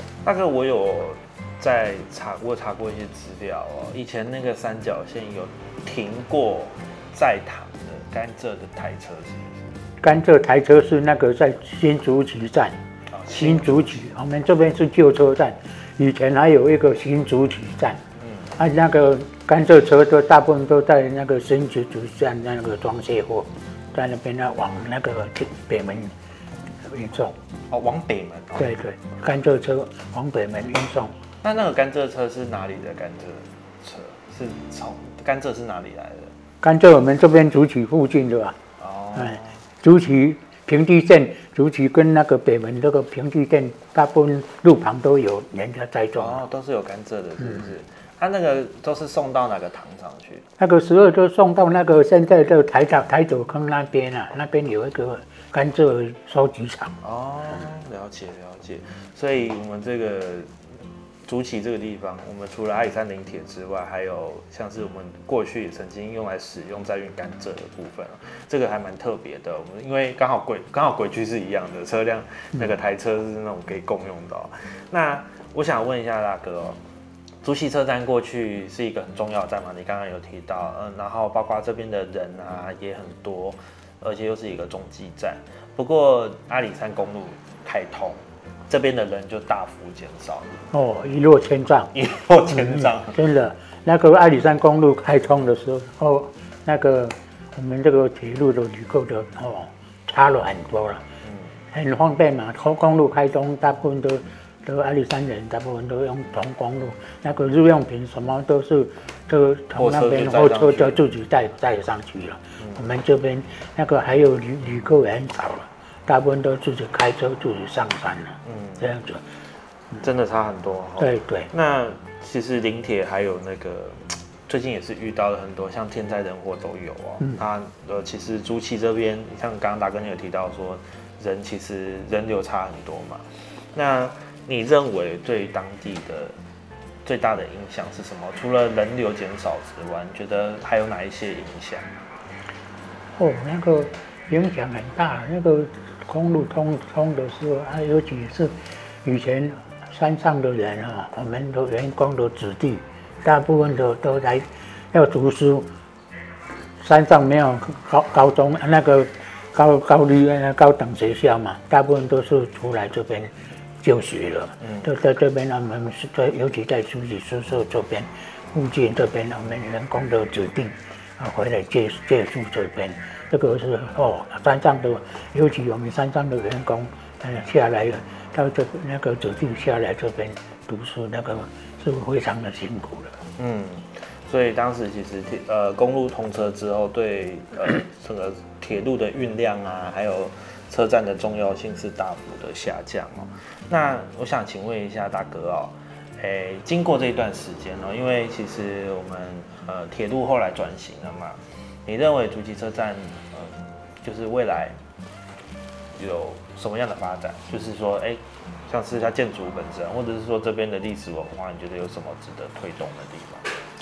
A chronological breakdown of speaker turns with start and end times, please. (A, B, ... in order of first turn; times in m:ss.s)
0:00.2-0:09.8 A
0:10.0-0:12.8 B
0:13.1-0:14.0 A
0:13.3-0:18.0 B
0:18.2-0:18.5 A
0:18.6-0:26.1 B
0:26.8-0:27.3 B
0:27.7-0:28.8 A
0:28.6-0:31.1 B
0:31.4-0:36.3 A
0:36.6-0:38.6 B
0:38.8-0:39.5 A
0:39.1-0:46.4 B
0:46.2-0:50.4 A
0:47.4-0:47.6 B
0:50.6-0:57.0 B
0:57.0-1:00.5 A
1:01.2-1:16.8 A
1:17.4-1:30.7 A
1:30.7-1:31.9 B
1:31.9-1:33.1 A
1:32.5-1:41.0 B
1:41.2-1:41.5 A
1:41.7-1:59.2 B
1:49.7-1:51.0 A
1:58.4-1:58.8 A
2:00.0-2:16.3 A
2:01.0-2:01.5 B
2:17.0-2:22.0 A
2:23.1-2:35.7 B
2:36.8-2:43.3 B
2:43.8-3:03.2 B
2:44.6-2:44.9 A
3:03.4-3:24.8 A
3:26.0-3:33.5 A